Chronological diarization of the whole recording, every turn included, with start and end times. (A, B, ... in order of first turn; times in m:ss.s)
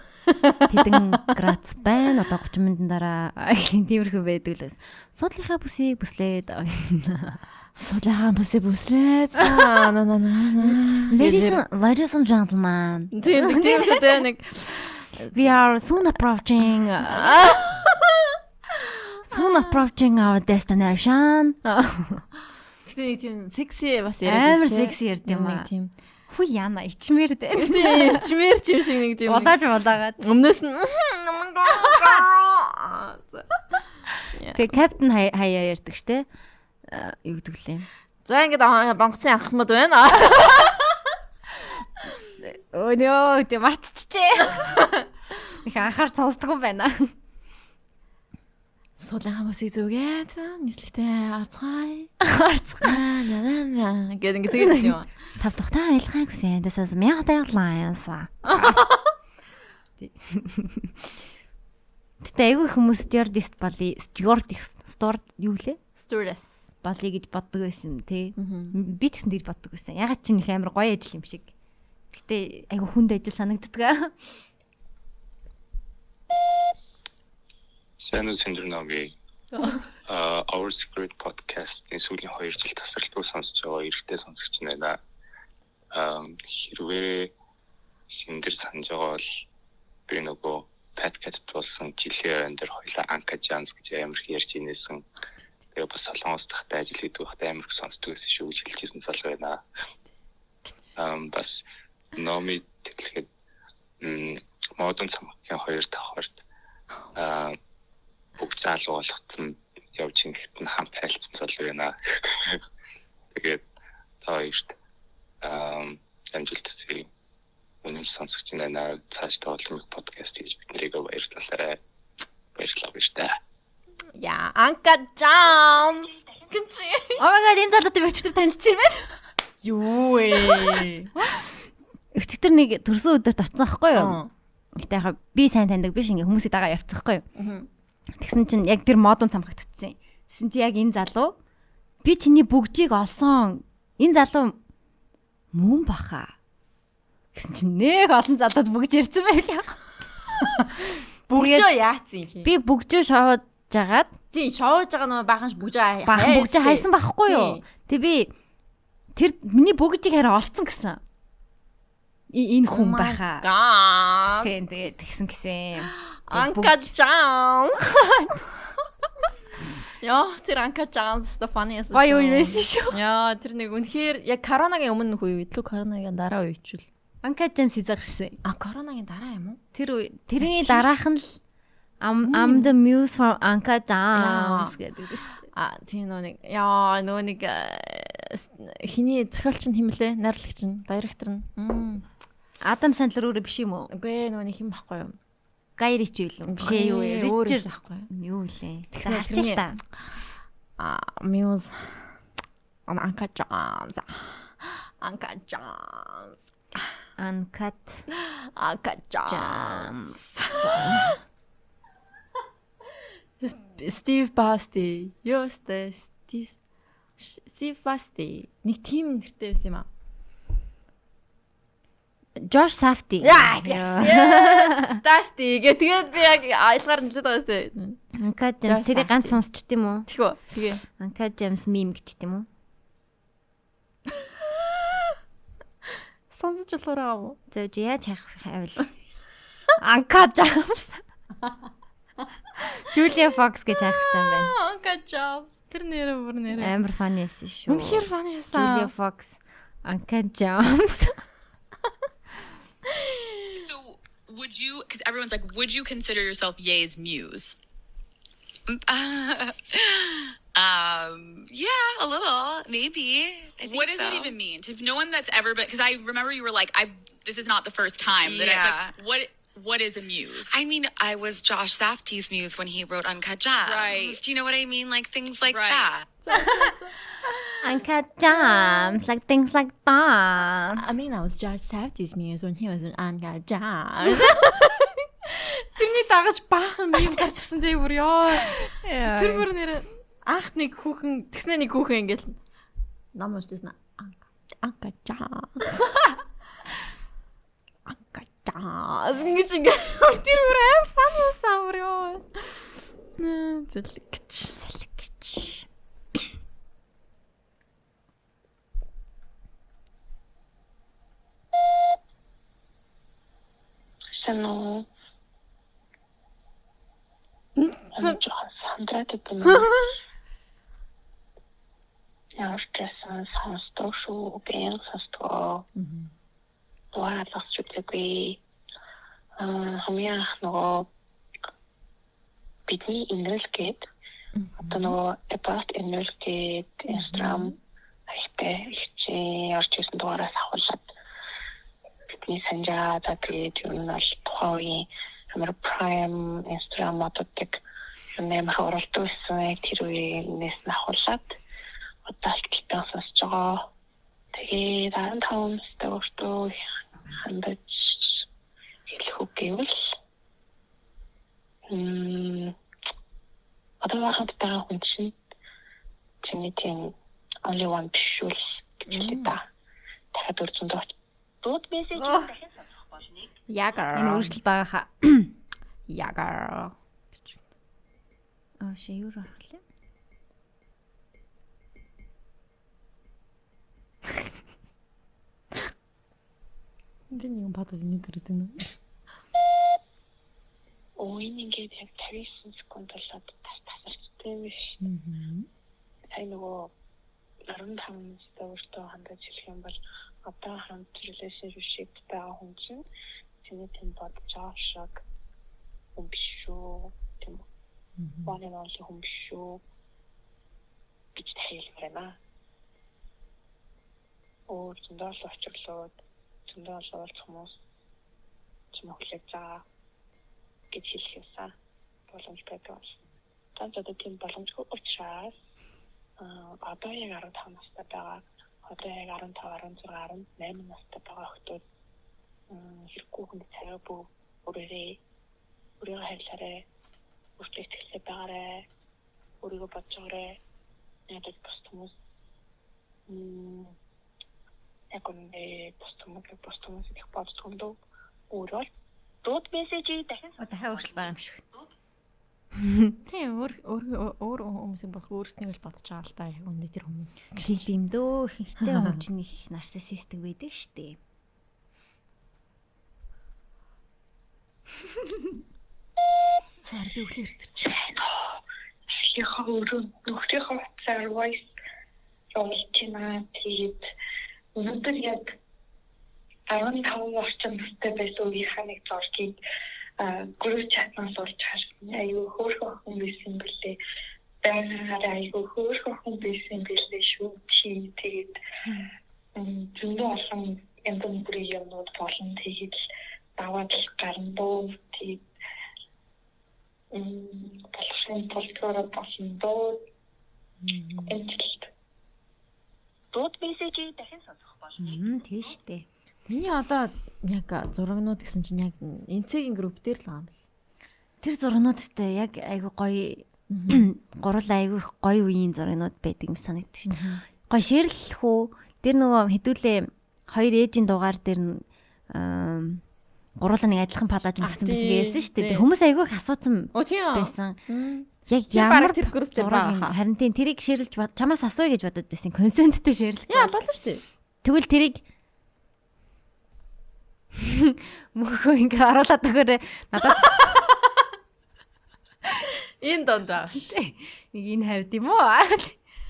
0:00.4-0:01.0 A
0:00.7-0:07.4 B
0:07.8-0:11.6 A
0:11.1-0:14.1 B
0:13.1-0:15.5 A
0:15.3-0:17.5 B
0:17.0-0:19.8 A
0:19.2-0:22.2 B
0:22.8-0:25.9 A
0:24.2-0:25.7 B
0:26.3-0:28.2 B
0:27.6-0:29.6 A
0:29.2-0:30.2 B
0:30.2-0:33.6 A
0:34.5-0:36.3 B
0:36.9-0:37.9 B
0:38.2-0:41.0 A
0:42.4-0:44.8 B
0:44.7-0:45.0 A
0:45.6-0:47.1 B
0:49.0-0:52.1 A
0:52.2-0:53.0 B
0:52.8-0:55.1 A
0:54.6-0:58.8 B
0:58.4-0:59.1 A
1:00.0-1:01.1 B
1:02.2-1:05.8 B
1:06.0-1:06.7 A
1:06.8-1:11.5 B
1:08.4-1:08.8 A
1:12.1-1:14.1 B
1:18.0-1:19.1 C
1:20.0-1:25.0 C
1:25.9-1:27.3 C
1:28.1-1:29.2 C
1:30.1-1:35.0 C
1:35.7-1:39.6 C
1:41.0-1:41.6 C
1:42.1-1:43.3 C
1:44.0-1:46.4 C
1:47.1-1:47.6 C
1:48.4-1:52.6 C
1:53.3-1:53.6 C
1:54.2-1:54.7 C
1:55.4-1:57.1 C
1:57.8-2:01.8 C
2:02.5-2:03.4 C
2:04.2-2:07.2 A
2:07.2-2:09.2 B
2:09.6-2:11.1 A
2:10.4-2:10.7 B
2:12.1-2:14.2 B
2:13.9-2:14.3 A
2:14.8-2:17.2 B
2:17.4-2:17.7 A
2:18.2-2:21.3 B
2:22.0-2:24.6 B
2:25.5-2:26.3 B
2:27.3-2:29.8 B
2:30.4-2:32.5 A
2:31.3-2:31.7 B
2:32.4-2:34.1 B
2:34.3-2:37.6 A
2:36.1-2:38.3 B
2:39.1-2:41.0 B
2:42.3-2:43.4 B
2:42.7-2:44.5 A
2:44.4-2:46.9 B
2:45.8-2:47.9 A
2:48.1-2:48.4 B
2:50.0-2:56.9 A
2:51.9-2:53.0 B
2:57.2-2:58.4 B
2:58.4-2:59.6 A
2:59.7-3:01.4 B
3:00.4-3:00.8 A
3:02.0-3:05.4 B
3:02.2-3:02.7 A
3:04.1-3:04.7 A
3:05.5-3:12.0 A
3:12.6-3:13.9 B
3:13.9-3:15.2 A
3:15.8-3:19.8 B
3:16.5-3:18.1 A
3:18.9-3:20.3 A
3:20.8-3:22.2 A
3:22.9-3:26.8 A
3:27.2-3:28.0 B
3:28.1-3:31.2 A
3:29.3-3:31.1 B
3:33.4-3:36.6 A
3:37.2-3:39.9 A
3:42.4-3:45.0 B
3:43.2-3:48.0 A
3:48.2-3:50.1 B
3:48.6-3:49.4 A
3:50.1-3:50.8 A
3:50.9-3:52.4 B
3:54.3-3:55.1 A
3:56.3-3:57.4 A
3:57.5-3:58.9 B
3:59.8-4:01.0 B
4:02.8-4:04.6 B
4:03.9-4:06.8 A
4:06.5-4:11.1 B
4:07.7-4:08.9 A
4:12.8-4:13.5 A
4:13.5-4:17.6 D
4:18.7-4:22.9 D
4:18.9-4:19.2 E
4:22.2-4:24.4 E
4:23.5-4:30.6 D
4:28.1-4:29.0 E
4:30.5-4:36.0 E
4:33.6-4:34.2 D
4:35.5-4:36.0 D
4:36.2-4:39.0 A
4:37.6-4:40.8 B
4:40.8-4:52.4 A
4:48.8-4:49.5 B
4:53.1-4:55.7 A
4:57.8-5:04.6 A
5:04.6-5:05.6 B
5:14.2-5:14.8 F
5:17.6-5:18.2 A
5:18.0-5:19.7 F
5:19.4-5:19.9 A
5:22.4-5:25.6 F
5:25.8-5:26.1 A
5:26.9-5:28.4 F
5:29.4-5:30.9 F
5:32.7-5:33.8 F
5:34.3-5:35.0 A
5:34.7-5:37.5 F
5:36.9-5:37.6 A
5:38.1-5:40.9 F
5:42.2-5:47.6 F
5:48.1-5:51.4 F
5:52.0-5:53.7 F
5:54.3-5:56.5 F
5:57.2-5:58.2 F
5:58.9-5:59.7 F
6:01.7-6:02.5 F
6:03.8-6:05.1 F
6:06.2-6:06.9 F
6:07.4-6:09.4 F
6:08.9-6:09.3 A
6:10.1-6:10.9 F
6:11.4-6:11.8 F
6:13.5-6:14.4 A
6:13.9-6:15.3 B
6:15.9-6:17.4 A
6:18.6-6:19.6 B
6:27.1-6:28.8 A
6:31.0-6:34.7 F
6:34.8-6:35.5 A
6:36.1-6:36.7 F
6:37.5-6:42.8 F
6:43.4-6:45.0 F
6:46.0-6:47.4 F
6:48.0-6:48.4 A
6:48.2-6:49.6 F
6:51.2-6:52.2 F
6:54.5-6:55.9 F
6:56.5-6:57.5 F
6:58.7-6:59.6 F
7:00.7-7:01.5 F
7:02.1-7:02.9 F
7:03.6-7:05.3 F
7:06.2-7:11.6 F
7:12.5-7:15.0 F
7:15.8-7:16.6 F
7:17.4-7:18.6 F
7:19.4-7:20.4 F
7:21.1-7:21.9 F
7:23.1-7:23.7 F
7:24.9-7:27.8 F
7:28.3-7:28.7 F
7:29.2-7:30.2 F
7:30.4-7:31.4 B
7:32.6-7:32.9 B
7:33.0-7:37.7 A
7:37.4-7:41.0 B
7:38.6-7:39.0 A
7:46.6-7:47.7 A
7:47.6-7:48.2 F
7:48.9-7:51.5 F
7:52.3-7:53.8 F
7:54.5-7:55.4 F
7:56.5-7:59.4 F
8:00.0-8:03.8 F
8:04.4-8:08.4 F
8:08.6-8:08.9 A
8:09.4-8:12.7 F
8:13.4-8:15.2 F
8:16.9-8:19.8 F
8:20.6-8:21.2 A
8:21.0-8:21.7 F
8:23.2-8:23.9 F
8:24.8-8:25.8 B
8:26.3-8:30.4 A
8:31.2-8:42.8 B
8:33.5-8:33.9 A
8:36.9-8:37.2 A
8:43.4-8:47.6 B
8:44.4-8:45.7 A
8:46.7-8:50.0 A
8:48.3-8:53.6 B
8:53.3-8:54.0 A
8:54.4-8:55.0 B
8:57.4-9:00.4 B
9:00.2-9:00.9 A
9:02.8-9:03.7 A
9:03.6-9:05.8 B